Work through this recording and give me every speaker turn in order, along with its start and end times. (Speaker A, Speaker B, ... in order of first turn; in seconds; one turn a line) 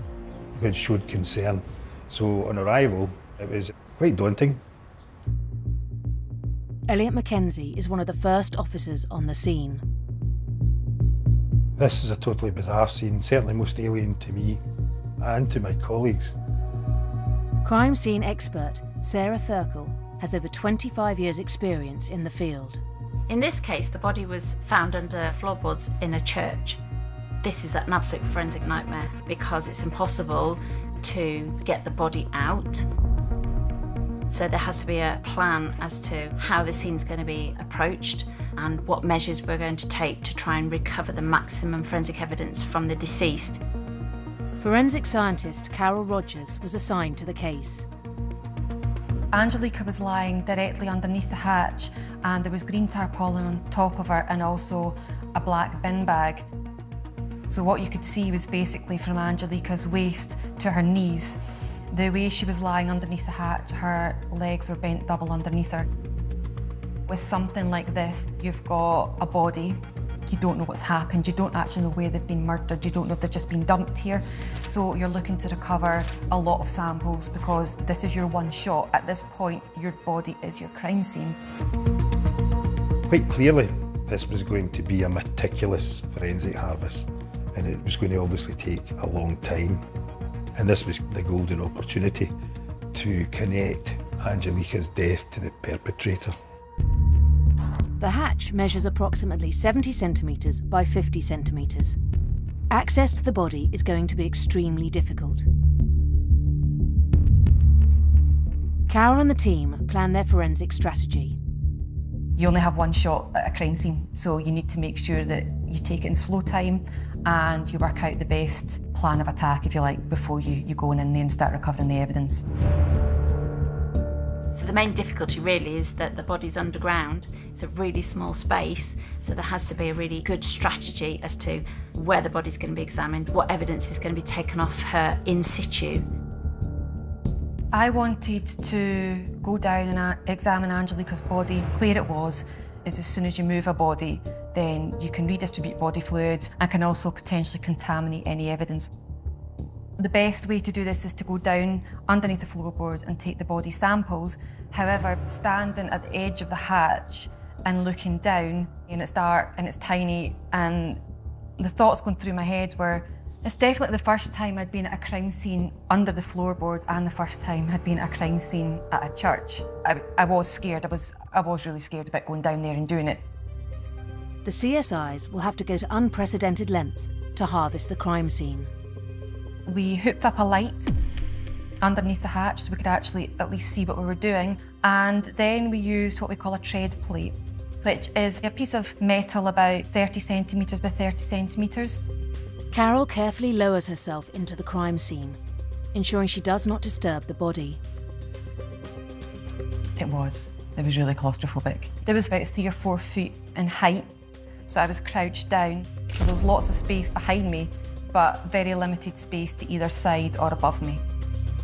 Speaker A: 0.5-4.6
Speaker B: 6.9-9.8
Speaker A: 11.8-14.6
Speaker A: 15.2-16.4
Speaker B: 17.6-22.8
Speaker C: 23.3-26.8
Speaker C: 27.4-32.9
Speaker C: 34.3-43.6
Speaker B: 44.6-47.9
Speaker D: 49.3-56.5
Speaker D: 57.5-61.4
Speaker D: 61.9-65.9
Speaker D: 67.1-81.4
Speaker A: 83.1-89.8
Speaker A: 90.5-92.3
Speaker A: 92.9-96.3
Speaker B: 98.0-102.0
Speaker B: 102.7-105.5
Speaker B: 108.9-111.4
Speaker D: 112.3-122.4
Speaker C: 124.5-136.1
Speaker D: 137.7-148.9
Speaker D: 150.0-161.0
Speaker D: 161.6-173.2
Speaker B: 174.4-178.7
Speaker D: 179.7-180.9
Speaker D: 181.8-192.0
Speaker B: 192.7-195.4
Speaker B: 195.9-197.8
Speaker D: 200.0-204.1
Speaker D: 204.7-211.0